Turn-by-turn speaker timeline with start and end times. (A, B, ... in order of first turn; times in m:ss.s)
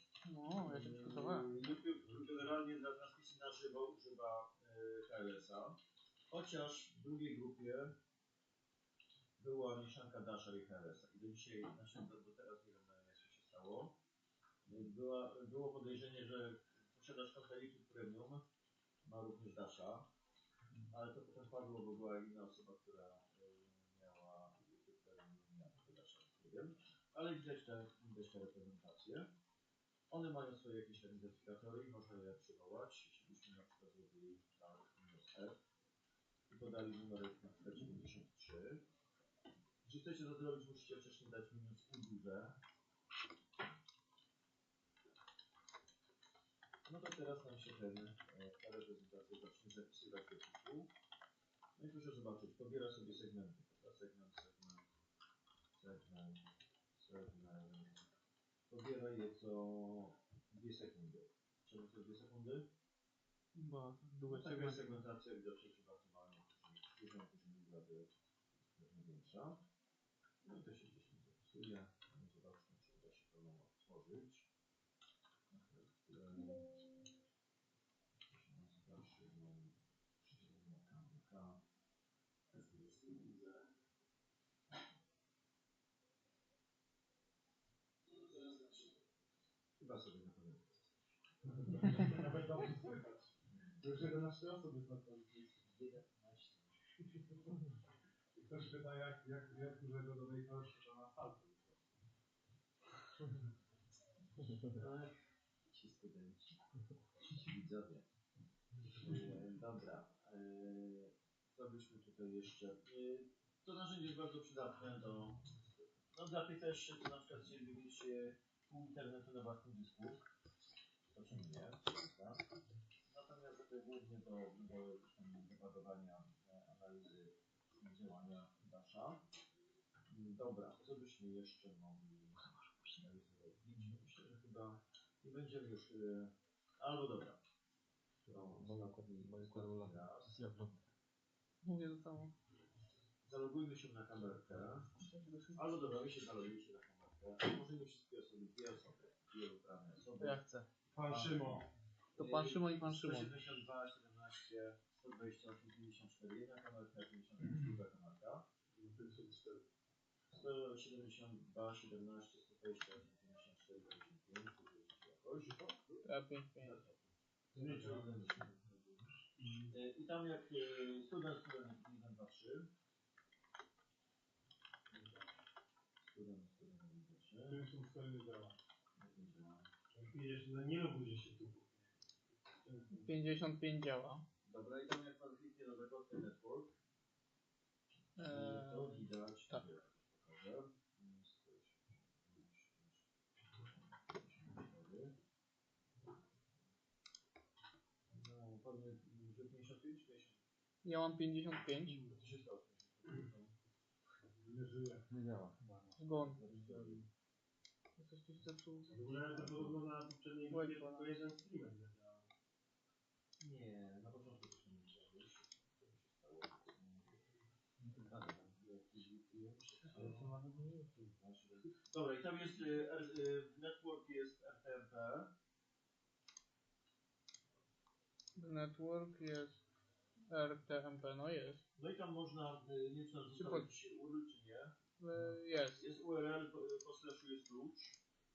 0:00.2-0:01.5 A
0:00.6-0:05.8 B
0:06.3-0:07.9 B
0:09.4-0:14.0 B
0:14.6-0:18.4 B
0:19.0-0:20.1 B
0:20.9-0:29.3 B
0:30.1-0:35.6 B
0:36.5-0:38.8 B
0:39.8-0:42.6 B
0:46.8-0:50.9 B
0:51.8-0:54.8 B
0:55.7-0:58.0 B
0:58.7-1:02.7 B
1:03.5-1:05.0 A
1:04.3-1:09.6 B
1:10.4-1:14.5 B
1:15.5-1:16.8 B
1:18.3-1:21.6 B
1:22.5-1:23.6 B
1:28.5-1:28.8 B
1:29.8-1:30.9 B
1:31.5-1:35.7 C
1:33.5-1:34.0 B
1:35.6-1:36.8 B
1:38.3-1:41.9 C
1:44.6-1:45.1 B
1:45.7-1:46.6 B
1:47.2-1:48.1 B
1:48.9-1:55.6 B
1:56.1-2:00.2 B
2:01.1-2:02.4 B
2:03.1-2:09.2 B
2:10.1-2:17.4 B
2:18.2-2:20.8 D
2:18.3-2:20.5 B
2:21.6-2:22.3 A
2:23.2-2:24.9 B
2:25.0-2:25.6 A
2:25.5-2:30.4 B
2:30.2-2:30.7 A
2:30.9-2:31.6 C
2:31.0-2:31.5 B
2:32.1-2:38.5 B
2:32.2-2:33.4 A
2:38.7-2:39.6 C
2:40.3-2:45.9 B
2:46.0-2:46.8 A
2:46.6-2:49.1 B
2:47.5-2:48.0 E
2:49.4-2:49.7 E
2:49.7-2:52.7 B
2:56.0-2:57.7 B
2:57.4-2:58.6 C
2:58.9-2:59.7 B
3:00.0-3:01.8 E
3:02.6-3:03.1 E
3:03.0-3:04.2 A
3:04.4-3:06.7 B
3:08.2-3:09.6 A
3:08.2-3:15.2 B
3:18.1-3:20.4 B
3:20.8-3:22.0 A
3:21.8-3:23.5 B
3:24.3-3:25.1 C
3:25.1-3:25.6 D
3:25.6-3:26.0 C
3:26.0-3:26.7 A
3:26.2-3:27.0 B
3:28.0-3:29.0 A
3:28.9-3:32.3 E
3:29.4-3:29.8 B
3:30.5-3:31.2 A
3:33.4-3:37.3 B
3:38.1-3:40.3 B
3:40.1-3:41.1 E
3:41.1-3:45.3 B
3:48.4-3:49.6 A
3:50.3-3:51.6 A
3:51.8-3:54.8 B
3:53.4-3:53.7 A
3:55.0-3:55.8 A
3:55.7-3:58.0 B